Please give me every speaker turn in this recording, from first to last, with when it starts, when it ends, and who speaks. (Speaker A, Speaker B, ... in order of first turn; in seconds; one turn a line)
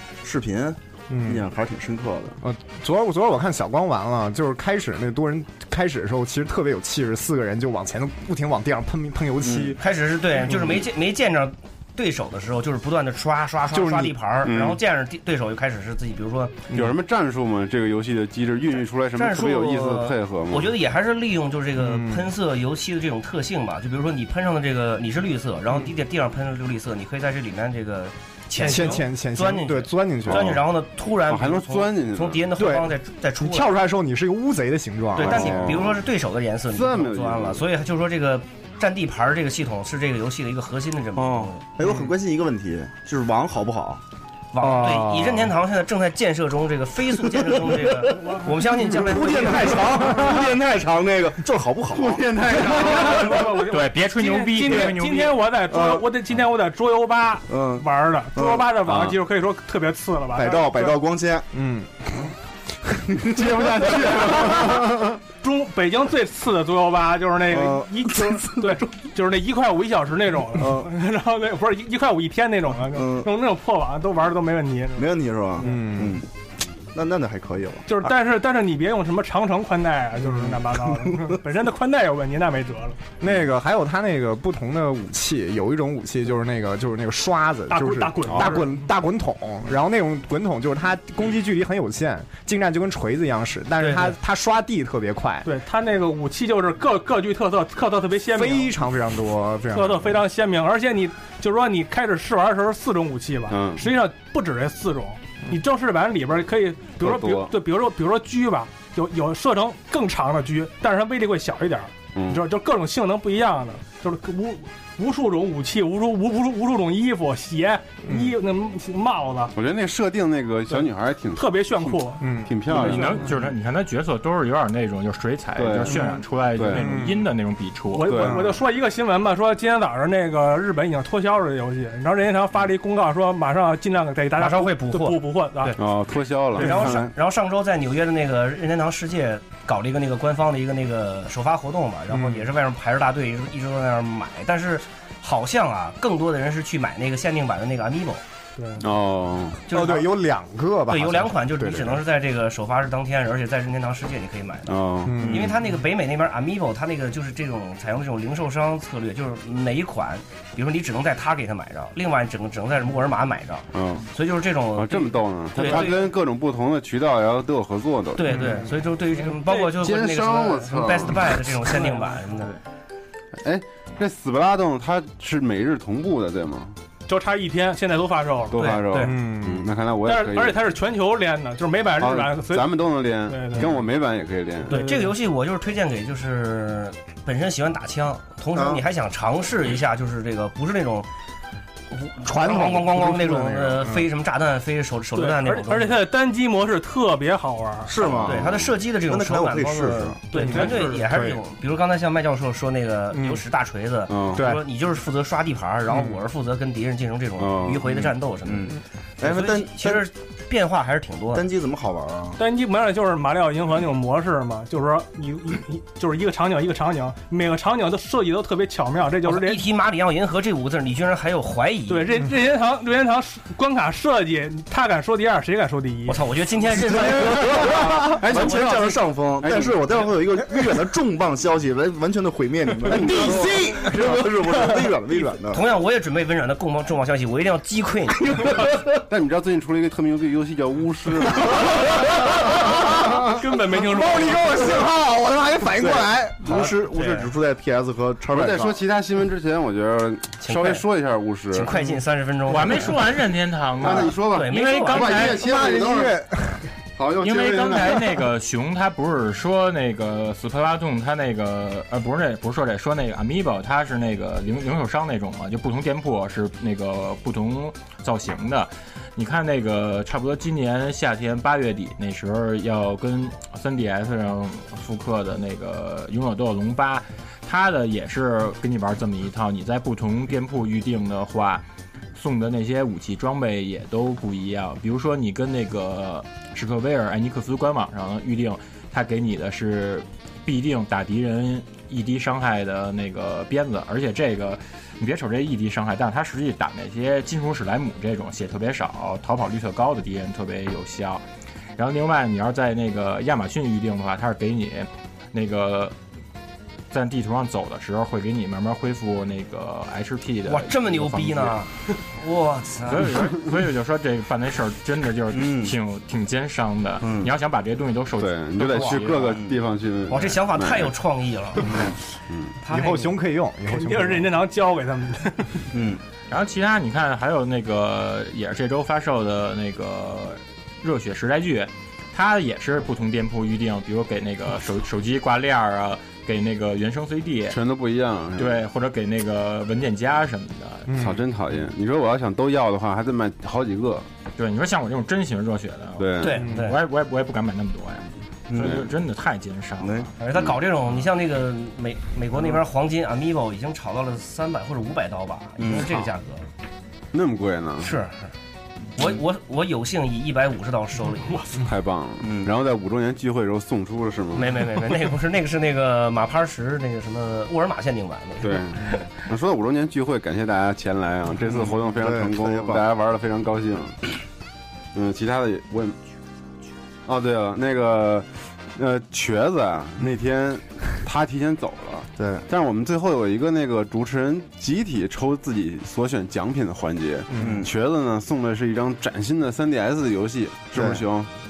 Speaker A: 0.2-2.4
Speaker B: 1.1-1.5
Speaker B: 2.4-9.8
Speaker A: 9.4-9.8
Speaker C: 9.8-16.6
Speaker B: 13.7-14.2
Speaker D: 14.4-14.8
Speaker D: 16.7-20.7
Speaker C: 19.1-33.7
Speaker B: 21.8-22.3
Speaker B: 28.6-30.6
Speaker D: 30.3-30.7
Speaker D: 31.2-32.5
Speaker B: 32.6-35.6
Speaker D: 35.2-36.1
Speaker C: 35.2-41.6
Speaker D: 36.7-37.6
Speaker A: 41.2-44.0
Speaker B: 41.8-42.1
Speaker C: 44.5-50.2
Speaker B: 44.6-45.5
Speaker A: 47.7-52.5
Speaker E: 48.2-48.6
Speaker D: 51.9-53.6
Speaker E: 52.5-60.9
Speaker F: 53.7-55.4
Speaker A: 55.7-56.1
Speaker A: 57.5-58.7
Speaker D: 58.8-59.2
Speaker A: 60.3-61.5
Speaker B: 61.5-62.0
Speaker A: 63.1-64.8
Speaker D: 63.3-65.2
Speaker E: 65.4-75.1
Speaker A: 67.5-68.9
Speaker A: 70.6-70.9
Speaker A: 72.9-73.3
Speaker A: 75.0-76.3
Speaker B: 75.6-76.2
Speaker A: 76.9-77.9
Speaker E: 77.9-83.1
Speaker B: 83.2-95.5
Speaker E: 87.7-88.8
Speaker D: 88.3-88.7
Speaker C: 93.8-94.2
Speaker E: 95.4-98.7
Speaker B: 98.3-100.1
Speaker E: 99.7-119.5
Speaker D: 103.5-103.8
Speaker D: 107.0-107.6
Speaker D: 112.1-112.5
Speaker D: 119.5-123.3
Speaker E: 120.7-123.2
Speaker B: 122.2-122.5
Speaker F: 122.7-128.2
Speaker D: 125.6-127.0
Speaker B: 126.7-127.2
Speaker E: 127.9-135.8
Speaker D: 128.0-128.5
Speaker C: 134.4-135.8
Speaker D: 135.8-137.1
Speaker C: 136.6-148.2
Speaker E: 136.6-136.9
Speaker B: 142.1-142.4
Speaker E: 148.6-148.8
Speaker D: 148.8-149.6
Speaker C: 149.7-150.1
Speaker B: 149.7-152.0
Speaker C: 150.9-166.1
Speaker D: 154.7-155.4
Speaker B: 155.1-155.5
Speaker A: 155.3-155.5
Speaker D: 163.7-164.1
Speaker D: 164.8-168.4
Speaker C: 168.2-172.5
Speaker E: 169.4-169.7
Speaker D: 169.8-171.5
Speaker E: 171.8-172.2
Speaker D: 173.4-176.7
Speaker E: 177.1-178.9
Speaker D: 178.5-180.6
Speaker C: 178.6-179.1
Speaker B: 179.0-179.7
Speaker E: 180.0-183.7
Speaker D: 182.0-184.8
Speaker E: 184.7-185.2
Speaker C: 184.7-191.1
Speaker A: 188.5-188.8
Speaker C: 191.9-196.0
Speaker B: 192.2-194.1
Speaker E: 195.1-198.0
Speaker A: 197.8-200.2
Speaker C: 198.0-208.7
Speaker E: 200.3-201.0
Speaker B: 200.6-201.4
Speaker B: 203.1-203.4
Speaker D: 204.1-204.5
Speaker B: 204.3-204.6
Speaker D: 207.4-208.1
Speaker A: 208.4-210.1
Speaker C: 209.2-211.4
Speaker A: 211.3-212.4
Speaker E: 212.4-219.7
Speaker C: 219.2-222.1
Speaker E: 221.9-226.2
Speaker C: 226.1-228.7
Speaker D: 226.8-230.1
Speaker A: 227.6-235.6
Speaker D: 232.9-233.5
Speaker B: 232.9-233.9
Speaker C: 235.5-238.6
Speaker D: 239.1-242.3
Speaker E: 243.4-244.8
Speaker B: 243.8-246.6
Speaker A: 245.8-248.8
Speaker C: 246.4-247.3
Speaker D: 248.3-251.7
Speaker C: 250.4-250.8
Speaker C: 251.5-252.9
Speaker F: 252.5-255.5
Speaker D: 253.8-256.2
Speaker C: 253.8-255.3
Speaker B: 255.4-256.5
Speaker D: 257.0-257.9
Speaker F: 257.2-281.6
Speaker F: 282.1-301.2
Speaker F: 301.8-305.9
Speaker F: 306.9-311.6
Speaker C: 310.4-313.1
Speaker F: 312.9-319.4
Speaker A: 315.3-315.7
Speaker A: 317.0-317.3
Speaker D: 318.2-320.9
Speaker C: 320.1-322.0
Speaker D: 322.3-322.6
Speaker C: 322.6-323.1
Speaker B: 322.7-324.3
Speaker E: 323.7-325.6
Speaker A: 325.7-326.0
Speaker F: 326.3-337.6
Speaker D: 337.5-338.6
Speaker F: 338.4-340.9
Speaker B: 340.9-341.2
Speaker D: 340.9-344.1
Speaker F: 344.4-350.1
Speaker D: 346.0-346.4
Speaker C: 346.2-346.8
Speaker A: 348.5-348.9
Speaker A: 349.8-350.1
Speaker C: 350.2-356.5
Speaker A: 355.6-356.1
Speaker D: 357.1-357.9
Speaker C: 357.8-358.3
Speaker C: 358.9-361.4
Speaker E: 361.3-361.6
Speaker D: 361.6-364.7
Speaker A: 362.2-362.5
Speaker C: 364.3-369.0
Speaker D: 368.4-374.0
Speaker A: 371.4-372.8
Speaker D: 374.9-375.9
Speaker D: 377.1-391.3
Speaker A: 382.2-382.4
Speaker B: 387.3-387.6
Speaker A: 387.3-387.7
Speaker A: 390.7-391.0